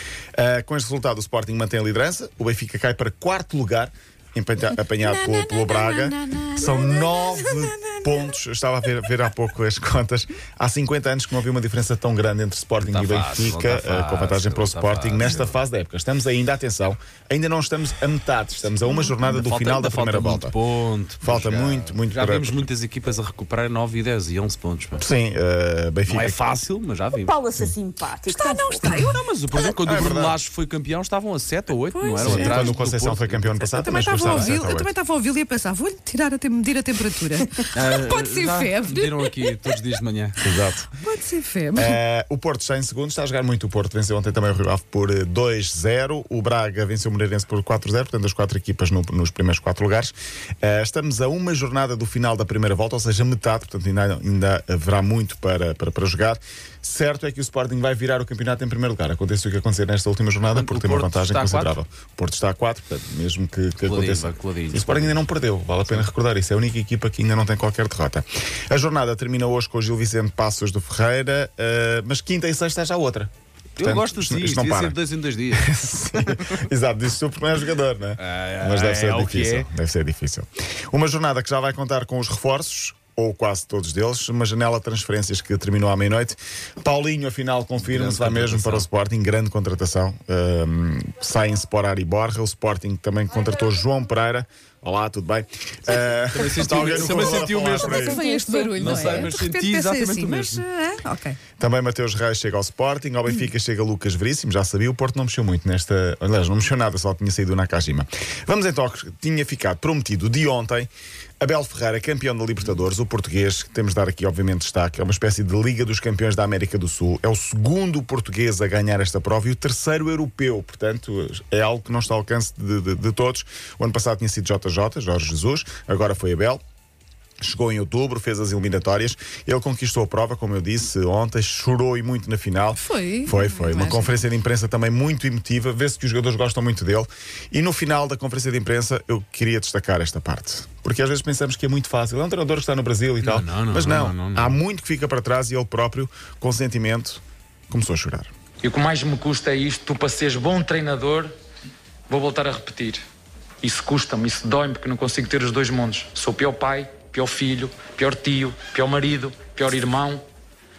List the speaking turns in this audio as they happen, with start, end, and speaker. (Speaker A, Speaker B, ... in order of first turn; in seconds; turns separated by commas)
Speaker A: 0.3-20.6, Speaker B: 5.0-8.3, Speaker C: 12.8-15.6, Speaker C: 19.1-25.1, Speaker A: 21.2-22.7, Speaker A: 25.0-26.5, Speaker C: 26.1-27.4, Speaker D: 27.2-29.0, Speaker B: 28.3-29.2, Speaker C: 28.9-34.5, Speaker A: 29.8-30.4, Speaker B: 31.9-32.7, Speaker A: 32.2-34.9, Speaker B: 33.7-39.8, Speaker C: 37.8-40.4, Speaker A: 40.4-40.9, Speaker B: 41.0-42.0, Speaker A: 41.8-75.0, Speaker C: 60.5-61.8, Speaker C: 63.8-65.2, Speaker C: 73.8-75.8, Speaker A: 75.5-98.2, Speaker C: 78.2-79.7, Speaker C: 87.8-88.9, Speaker C: 96.1-98.0, Speaker D: 97.8-99.3, Speaker B: 97.8-101.4, Speaker C: 98.7-100.6, Speaker A: 101.6-110.9, Speaker A: 111.4-126.6, Speaker A: 127.4-148.3, Speaker B: 132.8-134.2, Speaker C: 143.2-144.6, Speaker E: 148.6-151.3, Speaker E: 152.1-153.0, Speaker E: 153.6-160.2